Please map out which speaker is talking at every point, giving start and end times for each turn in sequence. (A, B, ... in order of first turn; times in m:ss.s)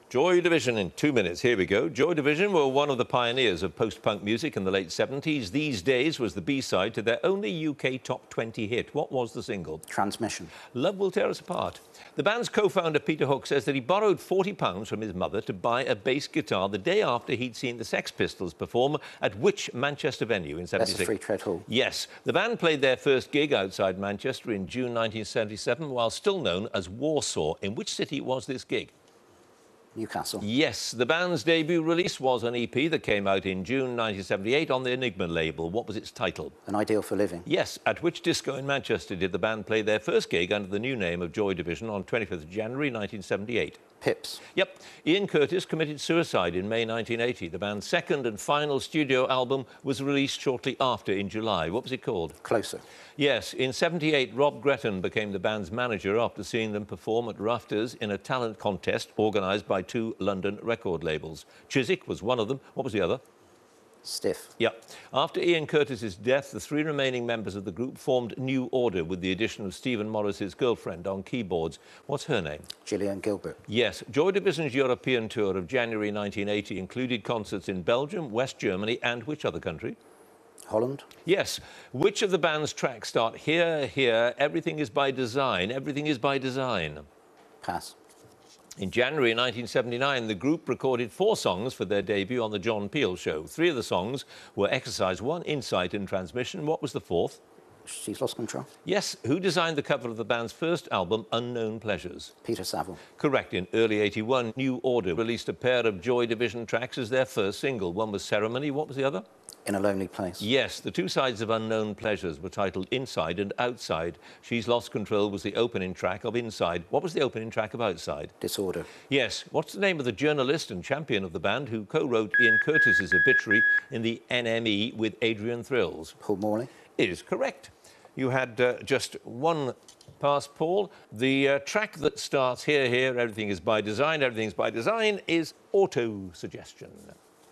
0:00.1-0:09.9 A
0:09.9-0:10.5 B
0:10.7-0:21.1 A
0:20.8-0:21.7 B
0:21.7-0:28.9 A
0:30.0-0:30.4 B
0:30.4-0:36.6 A
0:36.6-0:37.5 B
0:37.4-0:43.8 A
0:44.0-0:44.4 B
0:44.5-0:52.4 A
0:52.4-0:52.8 B
0:53.2-1:03.2 A
1:04.0-1:04.5 B
1:04.6-1:12.7 A
1:12.8-1:13.6 B
1:13.7-1:20.0 A
1:20.7-1:21.0 B
1:21.3-1:27.0 A
1:27.6-1:28.0 B
1:28.8-1:37.4 A
1:37.9-1:38.7 B
1:38.8-1:42.3 A
1:42.4-1:43.0 B
1:43.2-1:49.2 A
1:49.6-1:50.5 B
1:50.4-1:58.4 A
1:58.4-1:58.9 B
1:59.0-2:06.2 A
2:06.2-2:06.7 B
2:07.0-2:17.2 A